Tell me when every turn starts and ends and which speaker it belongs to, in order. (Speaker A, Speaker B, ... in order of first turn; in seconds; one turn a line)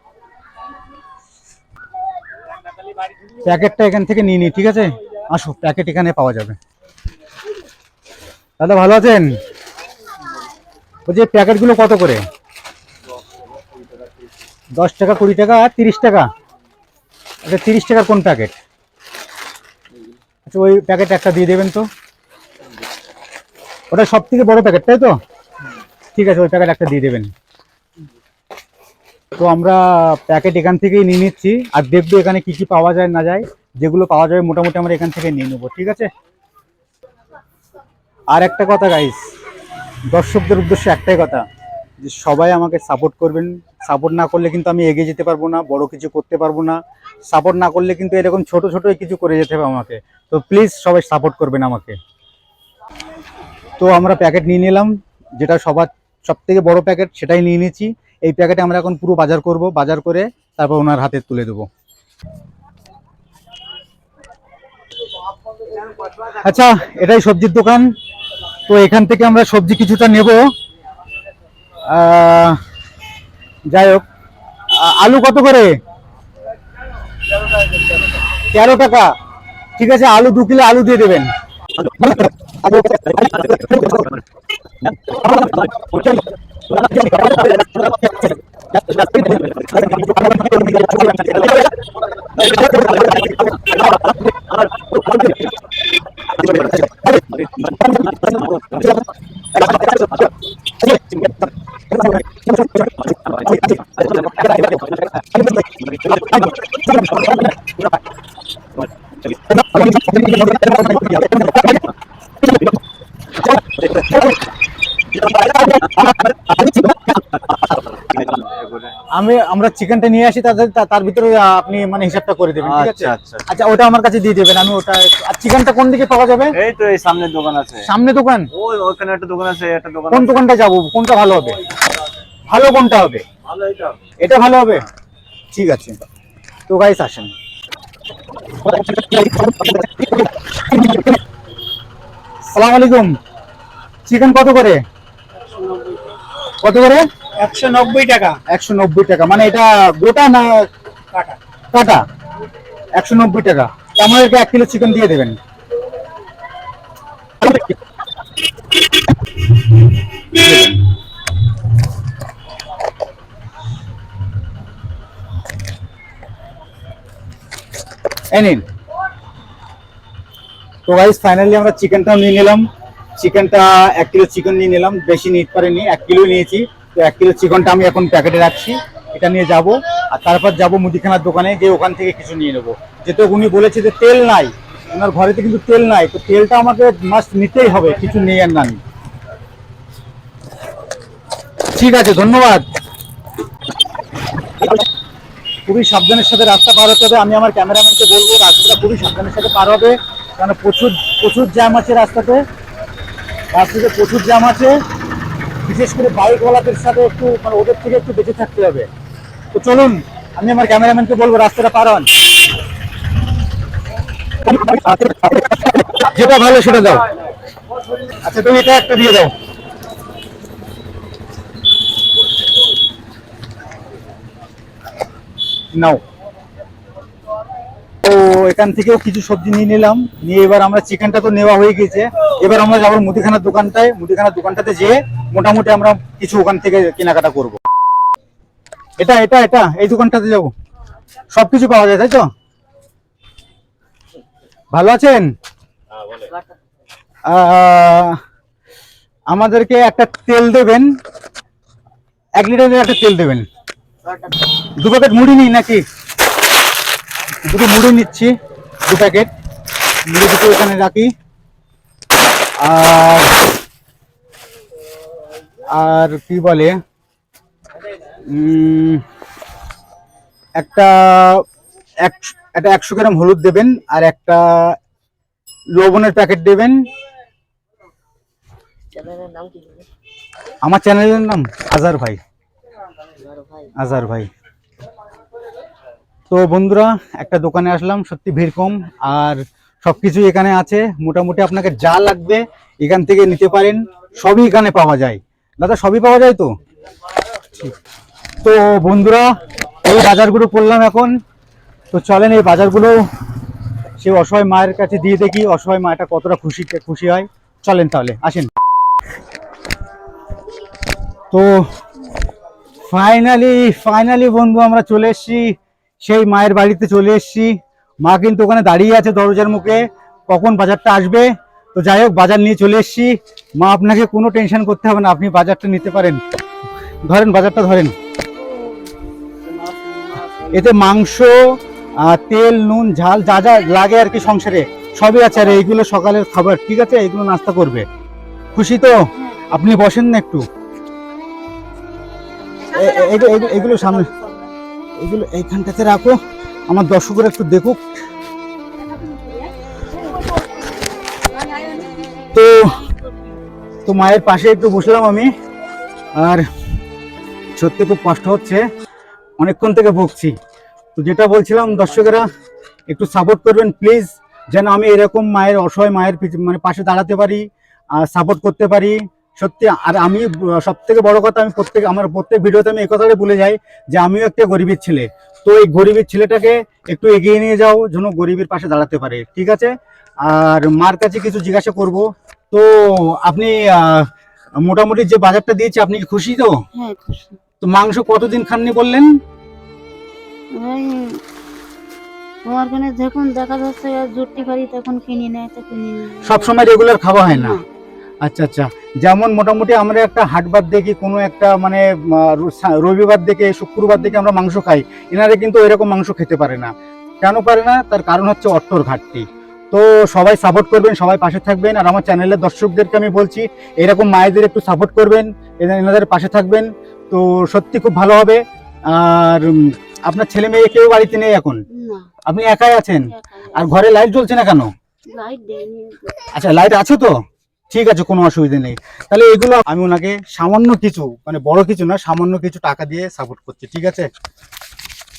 Speaker A: 3.4-6.6
Speaker A: 8.6-9.4
Speaker A: 11.1-12.2
Speaker A: 14.8-16.3
Speaker A: 17.4-18.5
Speaker A: 20.4-21.9
Speaker A: 23.9-25.1
Speaker A: 26.1-27.3
Speaker A: 29.4-36.1
Speaker A: 38.3-39.3
Speaker A: 40.1-41.4
Speaker A: 42.0-52.0
Speaker A: 53.8-61.7
Speaker A: 66.1-67.8
Speaker A: 68.7-70.4
Speaker A: 71.9-72.6
Speaker A: 73.7-74.0
Speaker A: 74.8-75.7
Speaker A: 78.5-79.1
Speaker A: 79.8-81.3
Speaker A: 82.0-84.0
Speaker B: 85.3-85.8
Speaker B: 86.9-87.7
Speaker A: 89.0-89.3
Speaker B: 89.0-90.2
Speaker A: 90.3-91.1
Speaker B: 92.5-93.0
Speaker B: 94.7-95.3
Speaker B: 96.4-96.7
Speaker B: 97.9-98.9
Speaker B: 103.5-104.8
Speaker A: 109.6-111.6
Speaker A: 115.4-117.1
Speaker B: 117.9-118.9
Speaker A: 119.1-126.5
Speaker B: 122.6-123.4
Speaker B: 126.5-127.9
Speaker A: 127.8-128.5
Speaker B: 128.5-130.3
Speaker A: 130.1-131.6
Speaker A: 132.5-133.2
Speaker B: 133.4-134.0
Speaker A: 134.2-134.8
Speaker A: 135.5-136.0
Speaker A: 136.7-137.3
Speaker A: 139.0-140.1
Speaker A: 142.5-143.1
Speaker A: 144.1-144.8
Speaker C: 145.5-146.0
Speaker A: 146.6-147.0
Speaker C: 147.4-148.3
Speaker A: 148.5-150.7
Speaker A: 151.7-152.0
Speaker A: 152.9-155.4
Speaker A: 160.2-160.8
Speaker A: 168.3-168.6
Speaker A: 170.8-172.7
Speaker A: 173.2-188.8
Speaker A: 191.7-192.6
Speaker A: 195.7-202.4
Speaker A: 203.5-204.8
Speaker A: 205.6-208.9
Speaker A: 209.5-212.1
Speaker A: 214.4-217.1
Speaker A: 218.1-219.3
Speaker A: 225.7-226.0
Speaker A: 228.0-237.6
Speaker A: 239.0-240.5
Speaker A: 241.3-242.2
Speaker A: 244.7-245.3
Speaker A: 247.3-248.2
Speaker A: 249.3-250.9
Speaker A: 252.4-253.4
Speaker A: 254.8-255.8
Speaker A: 257.4-258.3
Speaker A: 258.9-259.3
Speaker A: 260.1-261.1
Speaker A: 262.6-263.3
Speaker A: 265.7-266.8
Speaker A: 268.3-269.0
Speaker A: 270.6-271.4
Speaker A: 272.0-274.8
Speaker A: 275.8-276.8
Speaker C: 278.9-279.8
Speaker A: 280.6-282.2
Speaker A: 283.8-284.3
Speaker A: 286.3-296.5
Speaker A: 298.4-301.1
Speaker A: 301.9-303.0
Speaker A: 304.0-308.5
Speaker A: 311.3-311.7
Speaker A: 312.9-326.2
Speaker A: 327.0-327.9
Speaker B: 329.5-330.5
Speaker A: 330.5-337.8
Speaker A: 338.6-340.4
Speaker A: 342.7-344.1
Speaker A: 345.0-347.8
Speaker C: 351.5-351.9
Speaker A: 352.3-352.8
Speaker A: 353.9-355.3
Speaker A: 356.1-356.5
Speaker A: 357.6-358.6
Speaker A: 359.4-360.4
Speaker A: 360.9-362.3
Speaker A: 362.9-367.4
Speaker A: 368.0-379.7
Speaker A: 380.2-386.6
Speaker C: 386.7-387.4
Speaker A: 387.6-389.1
Speaker C: 390.6-391.2
Speaker C: 392.4-396.5
Speaker A: 396.2-397.6
Speaker C: 397.2-397.6
Speaker A: 398.2-406.7
Speaker C: 403.9-404.2
Speaker A: 407.2-421.6
Speaker C: 421.7-422.1
Speaker A: 422.2-424.7
Speaker C: 423.1-423.7
Speaker C: 425.1-426.3
Speaker A: 426.3-434.1